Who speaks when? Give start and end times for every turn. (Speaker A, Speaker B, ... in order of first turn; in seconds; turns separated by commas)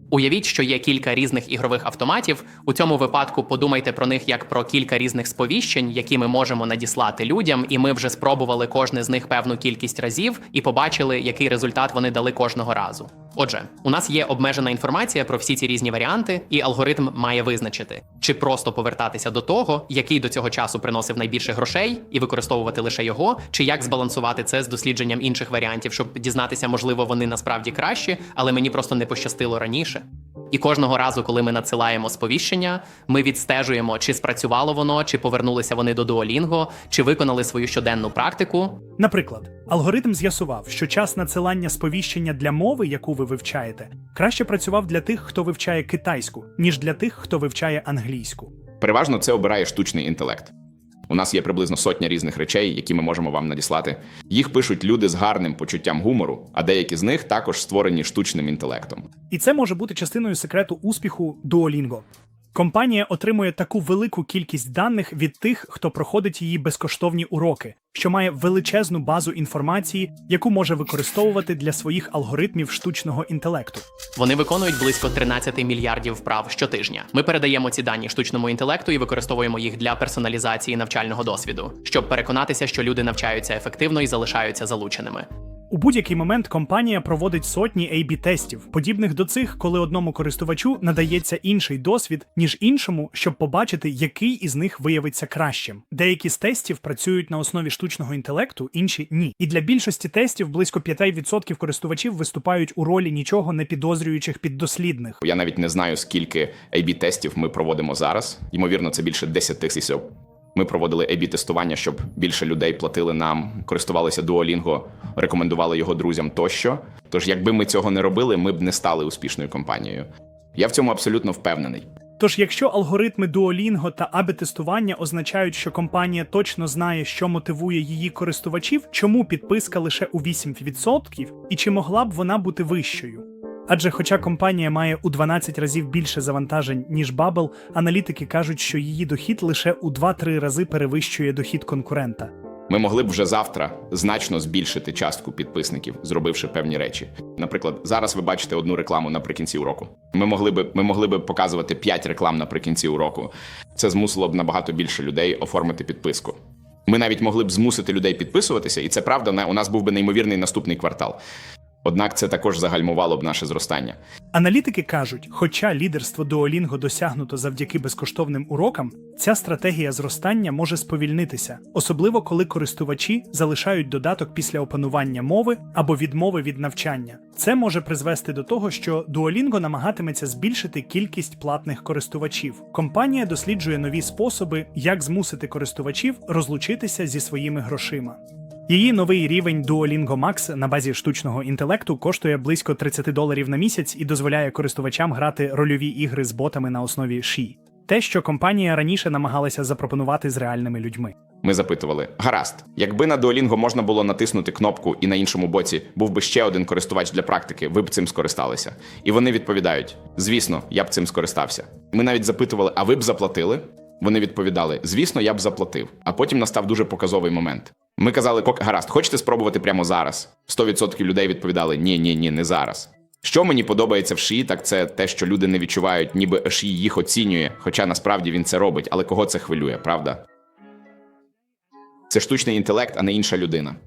Speaker A: 0.1-38.8, Speaker B: 39.0-48.5, Speaker C: 48.8-50.5, Speaker C: 51.1-59.1, Speaker B: 59.3-73.8, Speaker A: 74.2-85.3, Speaker B: 85.7-105.2, Speaker C: 105.2-121.9, Speaker B: 122.2-142.3, Speaker C: 142.7-156.4, Speaker C: 156.9-161.2, Speaker C: 161.8-164.0, Speaker B: 164.3-201.2, Speaker C: 201.4-230.2, Speaker C: 232.1-233.8